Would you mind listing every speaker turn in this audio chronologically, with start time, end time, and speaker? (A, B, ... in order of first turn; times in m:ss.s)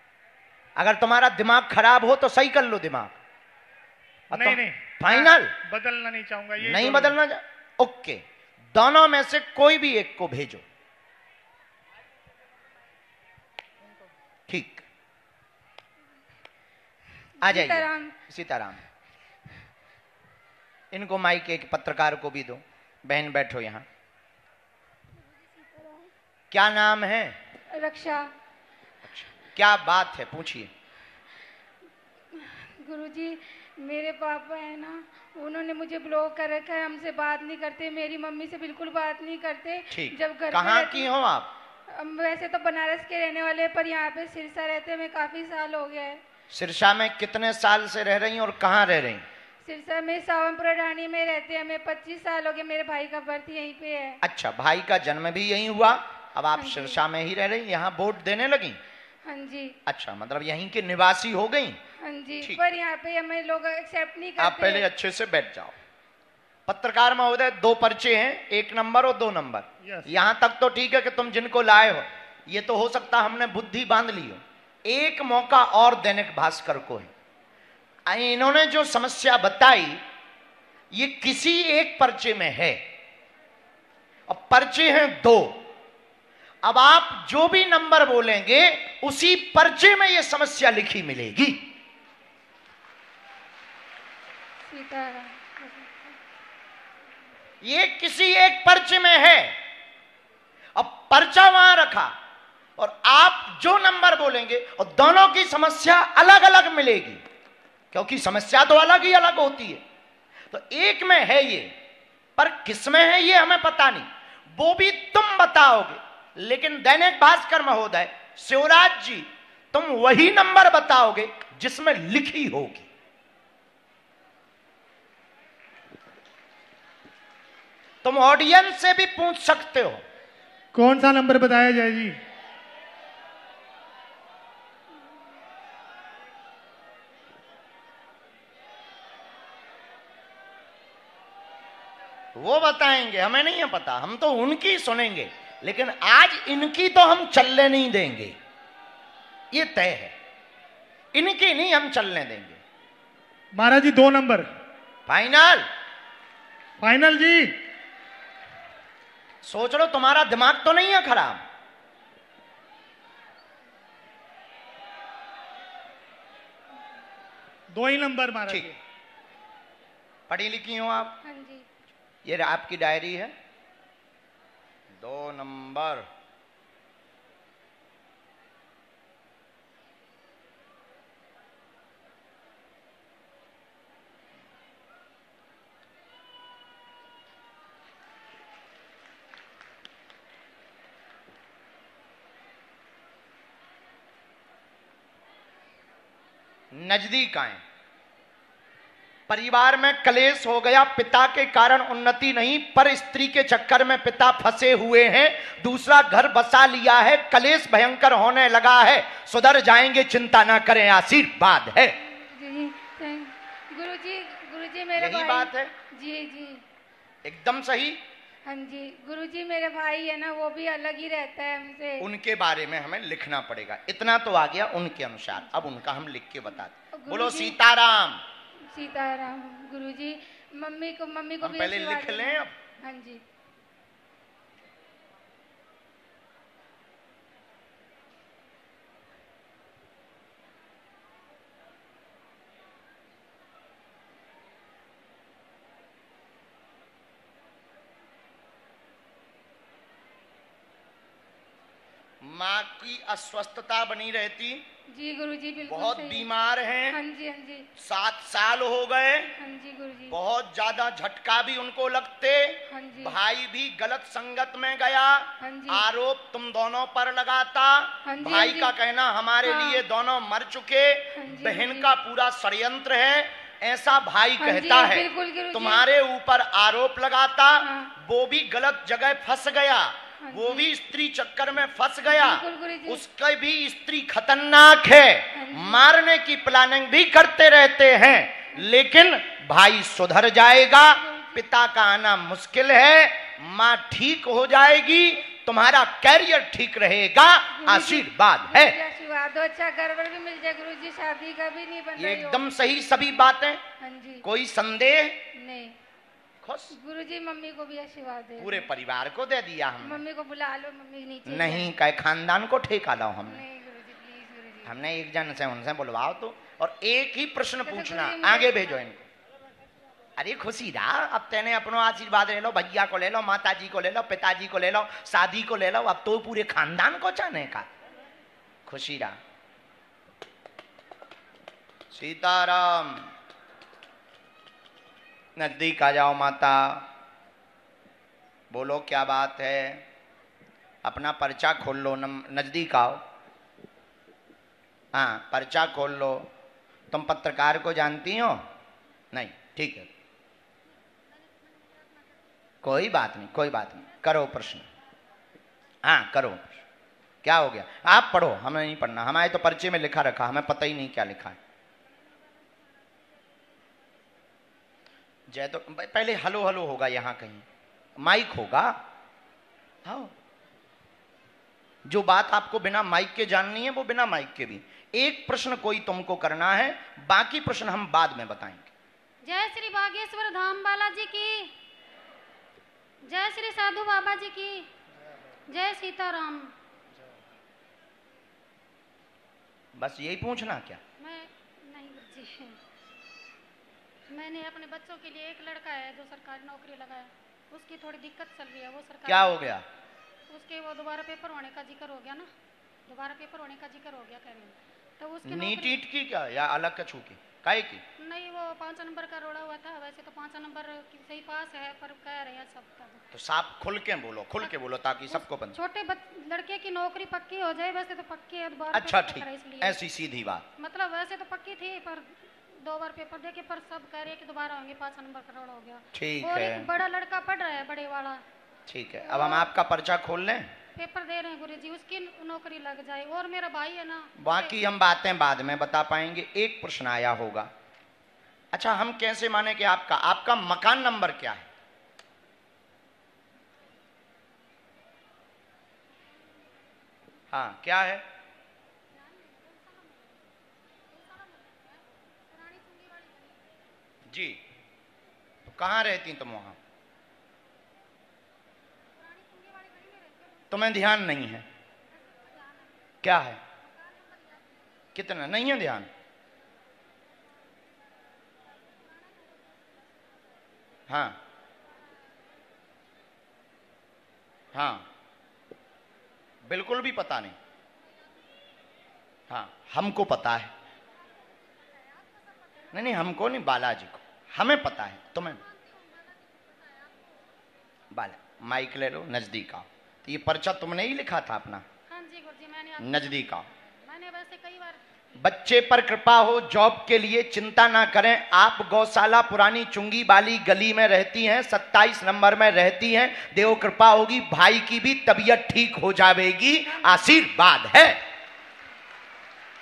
0:00.8-0:03.2 A
0:04.3-0:07.2 B
0:04.3-0:05.6 A
0:06.6-0:10.6 A
0:14.5-0:14.9 A
0:17.4-0:18.2 C
0:17.4-0:18.8 A
0:20.9-0:23.9 A
0:25.3-0:26.1 C
0:26.5-0:27.4 A
0:27.7-0:28.3 C
0:29.0-0:30.7 A
0:32.3-0:41.1 C
0:39.9-0:41.5 A
0:41.9-0:46.2 C
0:46.5-0:49.2 A
0:49.6-0:54.2 C
0:54.2-0:58.8 A
0:56.6-0:57.0 C
0:59.2-0:59.8 C
0:59.9-1:01.8 A
1:01.9-1:04.9 C
1:04.4-1:05.8 A
1:06.7-1:17.1 A
1:09.8-1:10.1 B
1:18.1-1:20.0 A
1:20.9-1:22.8 A
1:24.3-1:25.7 A
1:26.6-1:31.7 A
1:34.6-1:36.2 C
1:37.6-1:39.6 A
1:40.8-1:42.1 A
1:42.8-1:47.2 A
1:47.9-1:49.8 A
1:50.5-1:51.7 A
1:52.4-2:02.9 A
2:08.0-2:10.0 A
2:10.7-2:12.2 B
2:22.4-2:28.4 A
2:29.5-2:30.1 A
2:31.1-2:32.6 A
2:33.5-2:34.5 B
2:35.1-2:35.7 A
2:36.8-2:37.6 B
2:39.4-2:41.4 A
2:47.7-2:48.8 B
2:50.3-2:51.2 A
2:51.2-2:51.7 C
2:52.2-2:53.4 A
2:55.0-2:56.1 A
3:16.7-3:17.6 A
3:19.3-3:32.0 A
3:32.0-3:36.6 C
3:35.0-3:35.7 A
3:37.2-3:38.0 A
3:38.5-3:42.1 C
3:42.0-3:48.2 A
3:46.9-3:47.6 C
3:48.7-3:53.2 C
3:51.4-3:52.5 A
4:12.2-4:14.7 A
4:14.9-4:16.3 C
4:15.7-4:17.0 A
4:16.9-4:17.7 C
4:17.8-4:19.3 A
4:19.4-4:20.2 C
4:20.1-4:58.8 A
4:22.7-4:23.2 C
4:25.4-4:25.8 C
4:28.0-4:28.7 C
4:29.4-4:29.8 C
4:31.1-4:31.9 C
4:34.4-4:35.9 C
4:37.6-4:37.9 C
4:40.2-4:40.7 C
4:42.1-4:43.0 C
4:45.3-4:45.8 C
4:50.9-4:51.4 C
4:57.6-5:02.5 C
5:02.0-5:03.6 A
5:03.8-5:04.2 C
5:04.2-5:05.3 A
5:05.3-5:05.8 C
5:06.4-5:06.8 A
5:06.7-5:08.7 C
5:08.4-5:10.0 A
5:09.8-5:11.7 C
5:11.3-5:13.4 A
5:13.3-5:14.8 C
5:14.6-5:19.0 A
5:17.6-5:18.8 C
5:20.2-5:27.7 A
5:28.7-5:29.2 A
5:31.9-5:33.1 A
5:35.4-5:36.9 A
5:38.5-5:39.8 A
5:40.8-5:43.0 A
5:44.9-5:46.3 A
5:46.9-5:48.5 A
5:49.1-5:49.9 A
5:52.6-5:54.7 A
5:55.8-5:56.6 A
5:57.2-6:01.4 A
6:05.3-6:07.5 A
6:08.0-6:08.8 A
6:09.8-6:10.1 A
6:11.8-6:18.7 A
6:19.2-6:21.5 D
6:23.0-6:24.7 D
6:25.5-6:26.5 D
6:29.8-6:30.8 A
6:31.0-6:32.6 D
6:34.1-6:39.5 D
6:39.1-6:39.6 A
6:40.3-6:42.3 D
6:42.9-6:45.8 D
6:45.2-6:47.8 A
6:48.0-6:53.0 D
6:53.1-6:55.6 A
6:55.1-6:59.8 D
6:58.7-7:00.4 A
7:00.6-7:08.2 D
7:05.9-7:06.7 A
7:08.7-7:10.5 A
7:10.8-7:14.5 D
7:14.2-7:17.5 A
7:18.5-7:21.5 A
7:27.3-7:28.0 A
7:28.9-7:30.3 D
7:30.9-7:33.6 D
7:34.1-7:34.4 A
7:35.5-7:36.6 A
7:38.9-7:40.8 D
7:40.5-7:41.5 A
7:41.9-7:43.0 D
7:43.0-7:43.4 A
7:43.6-7:44.6 D
7:45.0-7:45.9 A
7:48.5-7:50.4 D
7:50.9-7:51.2 A
7:54.5-7:54.9 A
7:56.4-7:57.4 A
7:59.3-8:00.5 A
8:01.2-8:03.1 D
8:02.7-8:05.4 A
8:05.2-8:07.2 D
8:07.9-8:11.6 A
8:11.9-8:14.8 D
8:12.8-8:13.4 A
8:15.2-8:28.0 A
8:26.7-8:27.2 D